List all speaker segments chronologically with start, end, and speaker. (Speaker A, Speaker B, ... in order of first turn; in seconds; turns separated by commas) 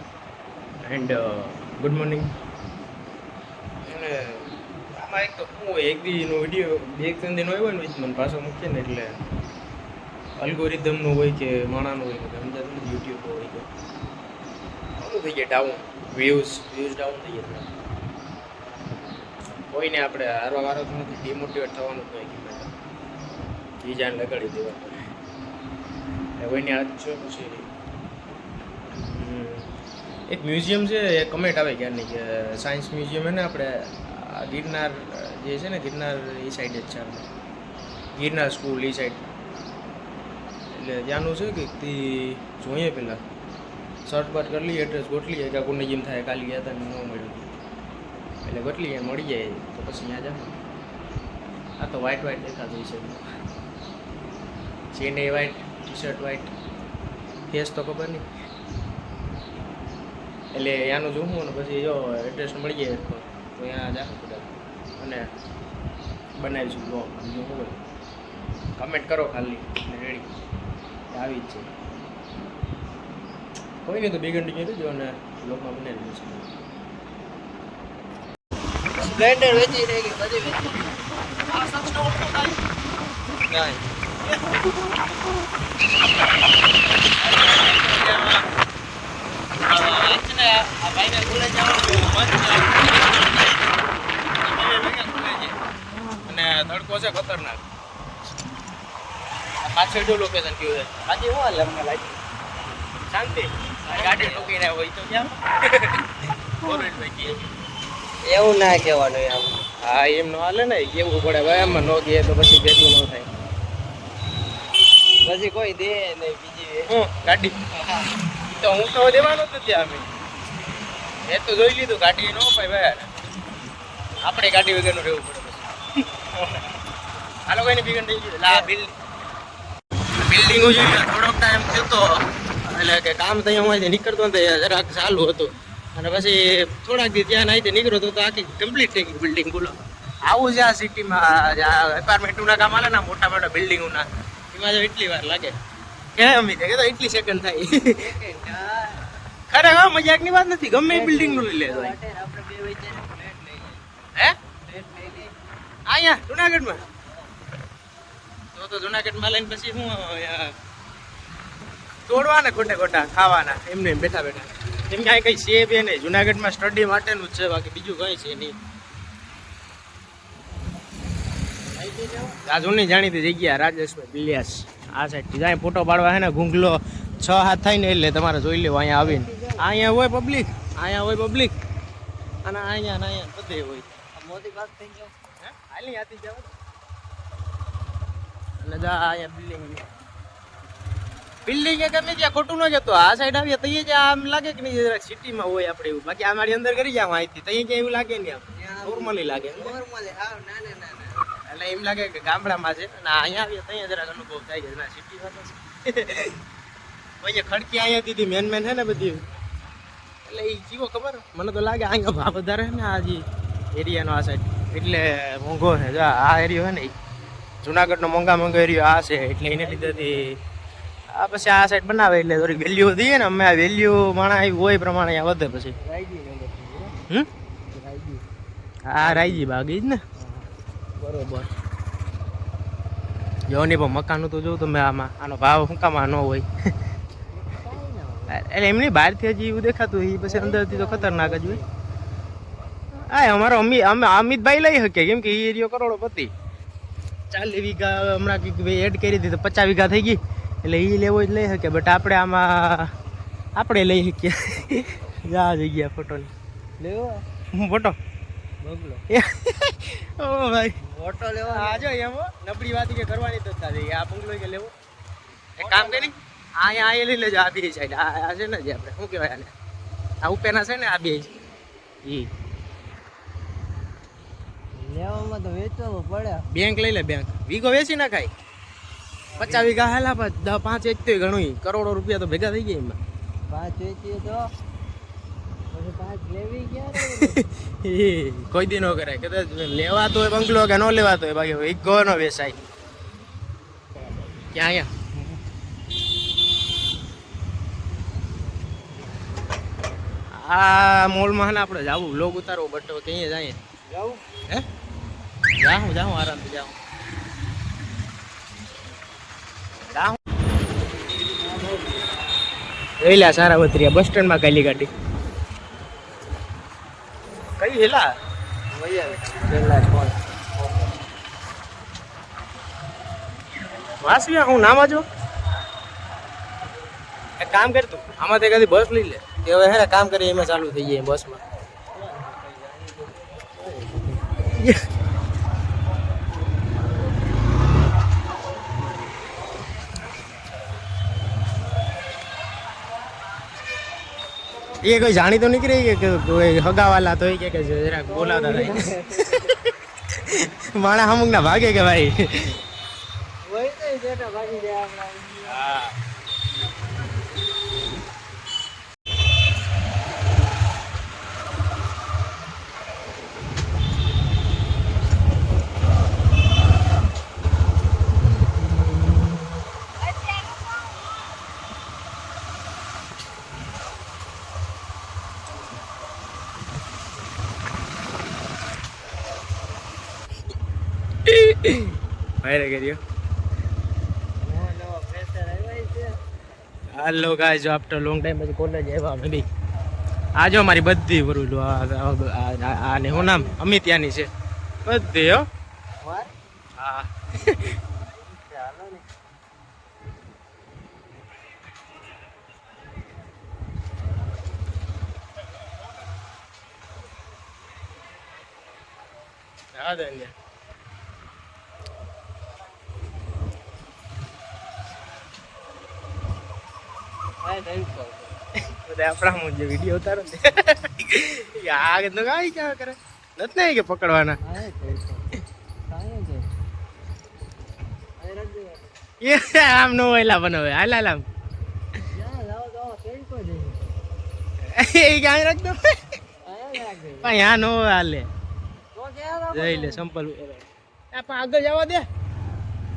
Speaker A: 0.8-2.4, Speaker A: 3.8-9.2, Speaker A: 10.4-13.7, Speaker A: 15.0-17.7, Speaker A: 19.7-22.7, Speaker A: 23.8-25.0, Speaker A: 26.4-27.7, Speaker A: 29.0-29.7, Speaker A: 30.3-37.3, Speaker A: 38.2-39.2, Speaker A: 40.7-43.2, Speaker A: 44.0-47.5, Speaker A: 48.5-50.6, Speaker A: 51.8-53.2, Speaker A: 54.9-56.5, Speaker A: 57.5-58.2, Speaker A: 60.5-65.3, Speaker A: 66.4-67.8, Speaker A: 68.8-70.3, Speaker A: 71.1-71.7, Speaker A: 73.8-76.5, Speaker B: 79.0-80.9, Speaker A: 81.5-82.6, Speaker B: 83.5-83.8, Speaker A: 87.2-88.5, Speaker A: 89.7-93.5, Speaker A: 94.4-95.6, Speaker A: 96.3-97.7, Speaker A: 99.6-102.2, Speaker A: 103.1-106.1, Speaker B: 103.9-104.5, Speaker A: 106.6-107.4, Speaker B: 108.2-109.7, Speaker A: 109.8-113.3, Speaker B: 115.2-116.9, Speaker A: 116.9-117.6, Speaker A: 118.6-120.1, Speaker A: 121.3-123.1, Speaker A: 124.2-125.7, Speaker A: 126.3-126.7, Speaker A: 127.5-128.9, Speaker A: 130.2-145.6, Speaker A: 146.2-148.1, Speaker B: 147.9-149.1, Speaker A: 149.5-152.0, Speaker B: 150.9-153.8, Speaker B: 154.7-155.3, Speaker A: 155.9-156.8, Speaker B: 157.0-157.3, Speaker A: 158.6-160.5, Speaker A: 162.1-168.6, Speaker B: 171.8-172.4, Speaker A: 172.5-181.6, Speaker B: 179.0-179.7, Speaker A: 182.4-183.9, Speaker B: 184.2-185.1, Speaker A: 185.4-186.5, Speaker A: 188.6-189.8, Speaker A: 191.5-199.8, Speaker B: 198.5-201.2, Speaker A: 201.5-206.4, Speaker A: 207.2-209.2, Speaker A: 210.3-213.2, Speaker A: 213.8-216.9, Speaker A: 217.6-220.4, Speaker B: 219.5-220.3, Speaker A: 221.1-225.8, Speaker B: 225.8-227.0, Speaker B: 227.7-228.2, Speaker A: 228.9-230.1, Speaker B: 229.0-229.5, Speaker B: 230.2-230.5, Speaker B: 231.0-231.4, Speaker A: 233.5-236.5, Speaker B: 237.3-238.3, Speaker A: 238.3-241.6, Speaker B: 240.3-241.7, Speaker A: 243.1-246.3, Speaker A: 247.3-252.9, Speaker A: 253.6-256.3, Speaker B: 256.8-257.2, Speaker A: 257.5-258.0, Speaker B: 258.6-259.0, Speaker A: 259.1-260.8, Speaker B: 260.8-261.9, Speaker A: 261.5-264.7, Speaker A: 265.6-269.5, Speaker B: 265.6-266.1, Speaker A: 270.2-271.3, Speaker B: 274.7-276.4, Speaker A: 276.5-278.3, Speaker B: 279.3-279.8, Speaker A: 279.4-283.0, Speaker B: 283.5-284.4, Speaker B: 285.7-287.4, Speaker A: 287.2-292.6, Speaker A: 294.5-295.3, Speaker A: 300.3-303.6, Speaker B: 303.9-304.2, Speaker A: 305.6-306.8, Speaker A: 309.9-310.2, Speaker B: 311.4-312.1, Speaker A: 313.0-314.9, Speaker A: 317.6-318.1, Speaker B: 318.7-321.0, Speaker A: 324.0-325.1, Speaker A: 327.4-331.4, Speaker B: 332.0-334.2, Speaker A: 334.6-334.8, Speaker A: 344.8-349.6, Speaker B: 348.1-349.5, Speaker A: 350.2-352.5, Speaker B: 353.5-355.6, Speaker A: 355.5-355.9, Speaker A: 381.3-383.0, Speaker B: 384.4-386.2, Speaker A: 386.9-389.5, Speaker A: 390.4-394.3, Speaker B: 393.1-393.6, Speaker A: 394.9-395.5, Speaker B: 396.0-396.3, Speaker A: 396.8-397.8, Speaker B: 398.0-399.1, Speaker A: 409.8-410.3, Speaker B: 417.4-418.4, Speaker A: 418.8-424.4, Speaker B: 424.4-425.3, Speaker B: 425.9-426.5, Speaker B: 428.2-428.9, Speaker A: 429.2-431.3, Speaker B: 432.1-433.9, Speaker A: 434.6-436.1, Speaker B: 436.4-437.4, Speaker A: 437.2-438.3, Speaker B: 438.9-440.0, Speaker A: 439.5-442.1